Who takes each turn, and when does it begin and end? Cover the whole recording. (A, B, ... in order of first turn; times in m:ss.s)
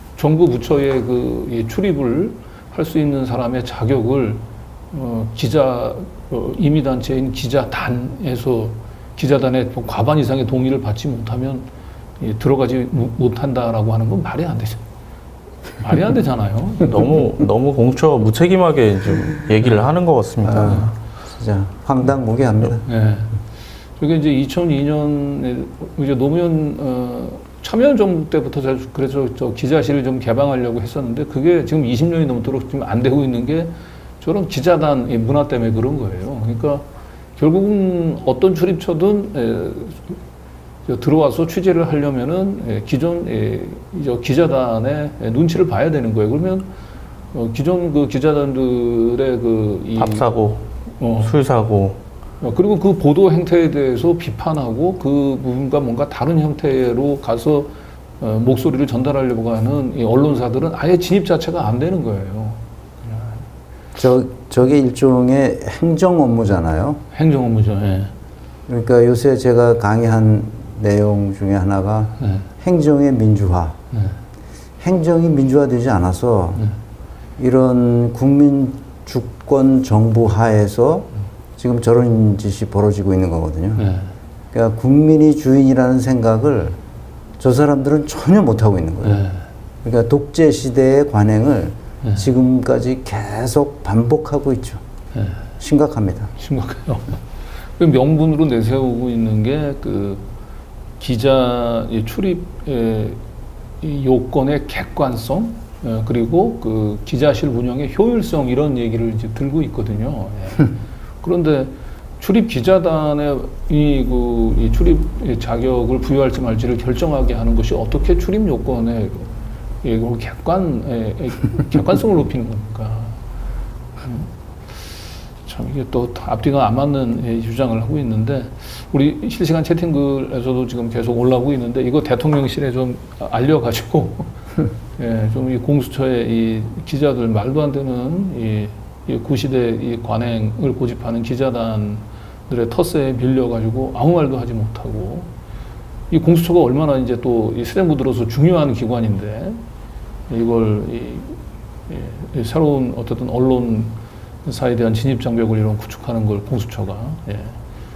0:00.2-0:11.7 A
0:12.2-0:14.8 A
0:15.8-0:17.0 A
0:16.8-0:20.9 B
0:20.4-0:22.8 C
0:22.8-0:23.4 A
0:24.0-0:40.2 A
0:40.9-0:46.7 A
0:47.3-0:50.3 A
0:50.0-0:52.0 B
0:51.0-0:51.4 A
0:52.4-1:03.4 A
1:04.0-1:07.0 C
1:07.1-1:08.1 A
1:08.7-1:13.8 C
1:12.2-1:12.5 A
1:13.9-1:14.2 A
1:14.8-1:16.7 C
1:17.4-1:23.9 C
1:23.8-1:24.1 A
1:24.5-1:26.8 C
1:27.4-1:29.2 C
1:29.0-1:29.5 A
1:29.8-1:34.8 C
1:35.1-1:35.5 A
1:35.6-1:36.3 C
1:36.4-1:40.3 A
1:41.0-1:43.2 A
1:43.8-1:59.3 A
1:59.8-2:03.2 A
2:04.0-2:04.3 A
2:05.4-2:14.4 A
2:15.0-2:25.3 A
2:26.1-2:29.6 A
2:30.3-2:37.6 A